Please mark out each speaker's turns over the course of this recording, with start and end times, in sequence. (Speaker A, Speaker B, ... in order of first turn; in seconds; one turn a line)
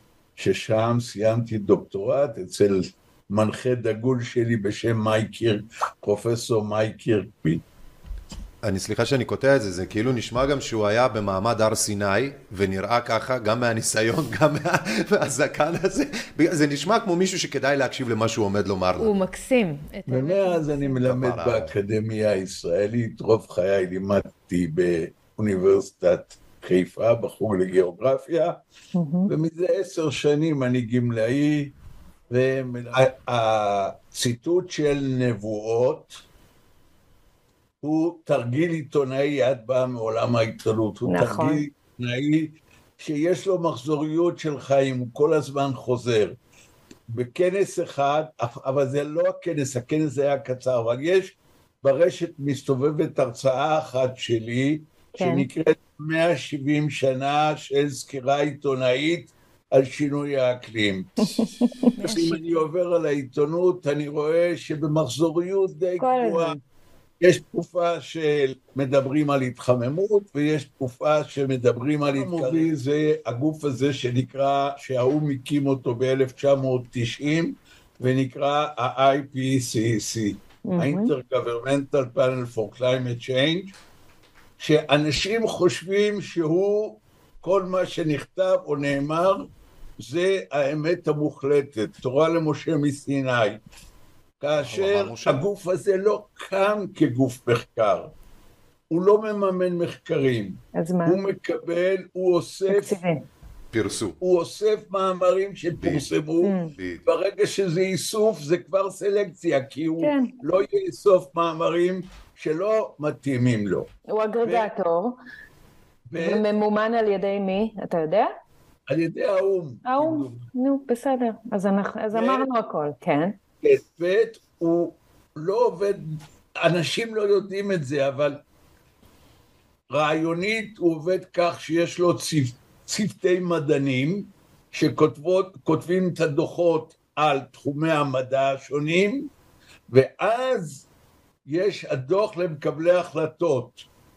Speaker A: 0.4-7.6
Speaker B: 8.6-19.1
Speaker C: 19.0-20.9
Speaker A: 20.1-28.6
Speaker B: 21.0-21.7
Speaker D: 28.9-29.3
Speaker A: 29.3-31.7
Speaker A: 32.3-36.2
Speaker A: 37.8-46.4
Speaker D: 41.1-41.6
Speaker A: 47.1-61.5
Speaker D: 55.1-55.5
Speaker D: 61.4-62.4
Speaker C: 62.0-62.4
Speaker A: 62.0-66.6
Speaker D: 66.0-66.5
Speaker A: 67.2-83.7
Speaker D: 80.7-81.1
Speaker A: 84.6-93.6
Speaker A: 94.4-98.1
Speaker B: 94.6-95.4
Speaker A: 98.9-103.0
Speaker D: 100.7-101.2
Speaker D: 102.7-103.2
Speaker B: 103.7-104.2
Speaker A: 104.2-106.5
Speaker B: 105.8-106.0
Speaker D: 106.4-106.7
Speaker B: 106.8-107.0
Speaker A: 107.0-114.7
Speaker D: 110.0-110.3
Speaker D: 114.1-115.2
Speaker A: 116.1-116.4
Speaker D: 116.2-118.3
Speaker A: 118.9-120.4
Speaker D: 119.8-123.4
Speaker A: 122.1-122.5
Speaker A: 123.6-128.4
Speaker A: 129.9-139.3
Speaker A: 139.9-140.8
Speaker A: 141.4-143.8